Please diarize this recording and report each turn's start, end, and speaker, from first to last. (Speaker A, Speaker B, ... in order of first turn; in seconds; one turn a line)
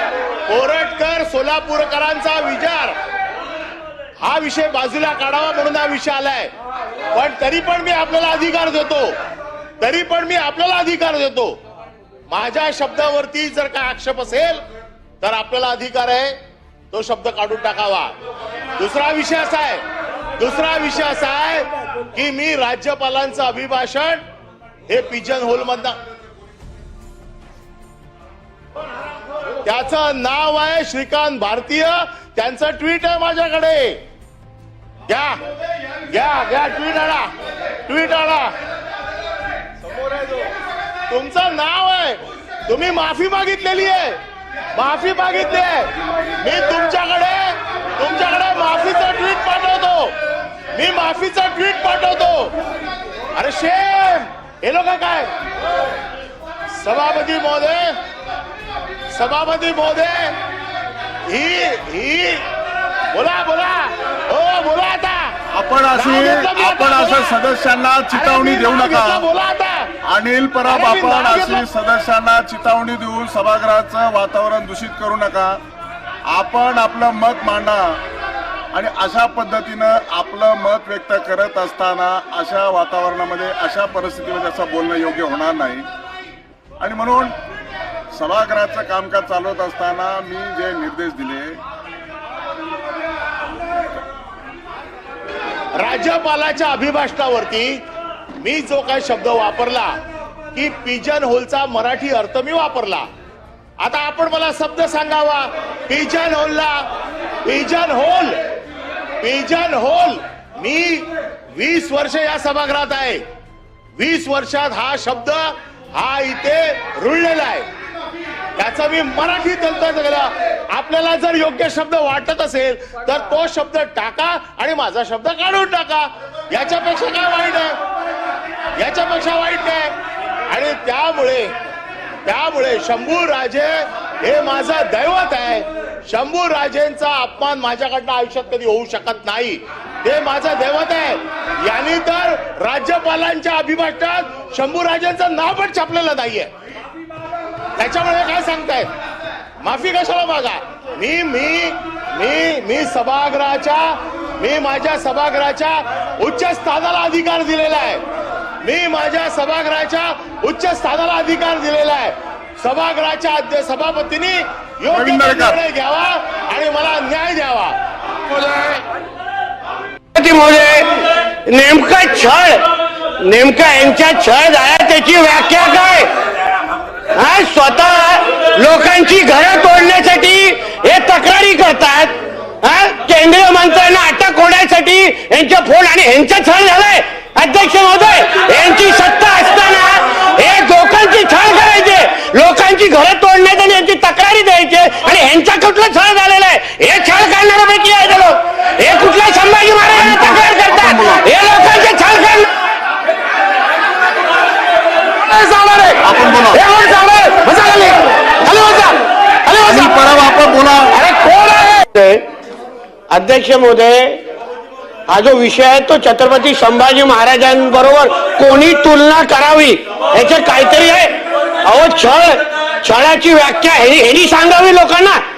Speaker A: 0.5-3.0
Speaker A: 4.2-6.5
Speaker A: 7.1-9.2
Speaker A: 9.8-11.6
Speaker A: 12.3-14.6
Speaker A: 15.2-16.4
Speaker A: 16.9-18.1
Speaker A: 18.8-19.8
Speaker A: 20.4-24.2
Speaker A: 24.9-26.0
Speaker A: 29.6-34.0
Speaker A: 35.1-35.4
Speaker A: 36.1-37.3
Speaker A: 37.9-38.5
Speaker A: 39.9-40.4
Speaker A: 41.1-44.2
Speaker A: 44.7-45.9
Speaker A: 46.4-50.1
Speaker A: 50.7-52.5
Speaker A: 53.3-55.3
Speaker A: 56.8-57.9
Speaker A: 59.1-60.3
Speaker A: 61.3-62.4
Speaker A: 63.1-65.3
Speaker B: 65.5-69.2
Speaker A: 65.9-67.3
Speaker A: 68.1-69.9
Speaker B: 70.0-75.6
Speaker A: 70.7-71.6
Speaker B: 76.3-78.0
Speaker B: 78.7-85.9
Speaker B: 86.8-87.4
Speaker B: 88.1-91.6
Speaker A: 95.8-97.8
Speaker A: 98.4-100.0
Speaker A: 100.5-103.1
Speaker A: 103.8-106.9
Speaker A: 107.4-108.4
Speaker A: 109.2-113.2
Speaker A: 114.0-117.7
Speaker A: 118.5-127.8
Speaker A: 128.8-129.9
Speaker A: 130.5-131.5
Speaker A: 132.2-146.5
Speaker A: 147.8-148.9
Speaker A: 149.6-158.0
Speaker A: 158.6-167.7
Speaker B: 164.9-165.6
Speaker C: 168.5-168.8
Speaker C: 170.1-172.6
Speaker C: 173.2-176.1
Speaker C: 177.1-202.5
Speaker B: 199.9-201.3
Speaker C: 205.3-210.0
Speaker B: 206.0-206.6
Speaker B: 209.6-210.9
Speaker C: 210.9-212.2
Speaker C: 213.1-214.2
Speaker C: 215.1-225.2